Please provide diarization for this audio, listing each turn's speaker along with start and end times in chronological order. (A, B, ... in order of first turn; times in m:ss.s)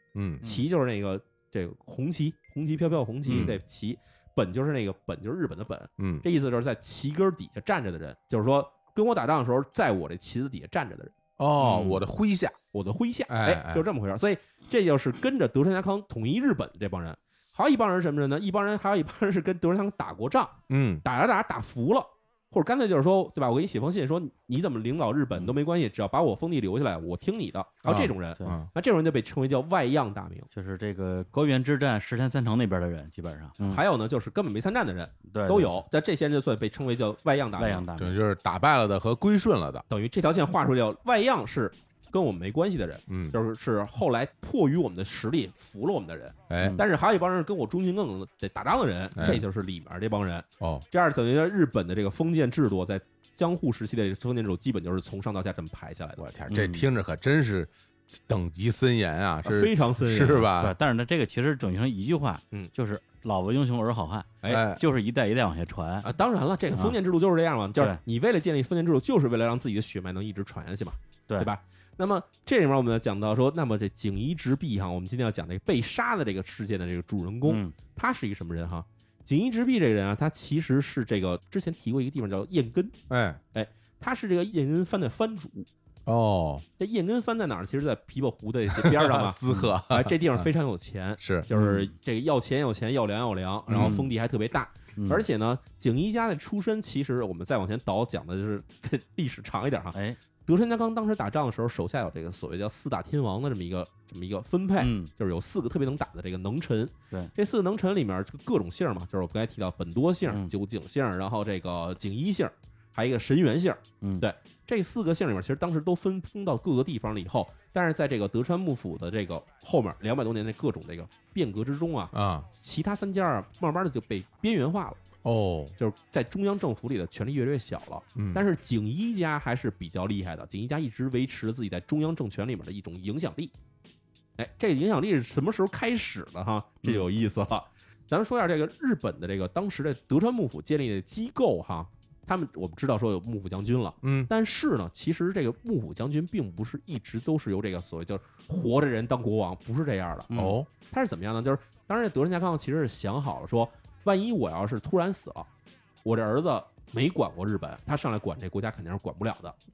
0:00.1-0:00.4 A
0:00.4-0:12.0 B
0:03.3-0:03.6 C
0:03.3-0:03.6 A
0:06.0-0:06.2 A
0:11.4-0:12.6 A
0:12.7-0:30.5 B
0:13.3-0:13.9 A
0:20.7-0:21.0 A
0:27.8-0:28.7 A
0:30.5-0:33.8 C
0:33.6-0:37.9 B
0:35.3-0:35.8 C
0:37.6-0:38.2 C
0:38.0-0:39.8 A
0:39.9-0:56.2 B
0:43.1-0:43.4 A
0:46.5-0:46.8 A
0:46.6-0:46.8 C
0:49.2-0:49.4 A
0:50.6-0:50.9 A
0:56.2-1:00.8 A
0:56.5-0:56.9 C
0:59.4-1:00.5 B
1:00.5-1:06.1 C
1:04.5-1:04.8 A
1:06.0-1:22.9 B
1:17.4-1:17.8 C
1:23.1-1:23.4 A
1:23.5-1:25.7 B
1:26.1-1:26.6 A
1:26.8-1:29.4 B
1:28.7-1:30.5 A
1:29.5-1:29.8 C
1:29.9-2:05.0 B
1:31.2-1:31.5 A
1:31.5-1:31.9 C
1:33.7-1:34.0 A
1:33.7-1:34.1 C
1:35.0-1:35.3 C
1:44.8-1:45.1 C
1:54.0-1:54.3 C
2:02.1-2:02.5 A
2:05.2-2:05.8 A
2:05.8-2:13.5 B
2:08.2-2:08.4 A
2:14.4-2:35.5 B
2:24.0-2:24.3 A
2:30.3-2:30.6 C
2:30.3-2:30.7 A
2:36.0-2:39.6 B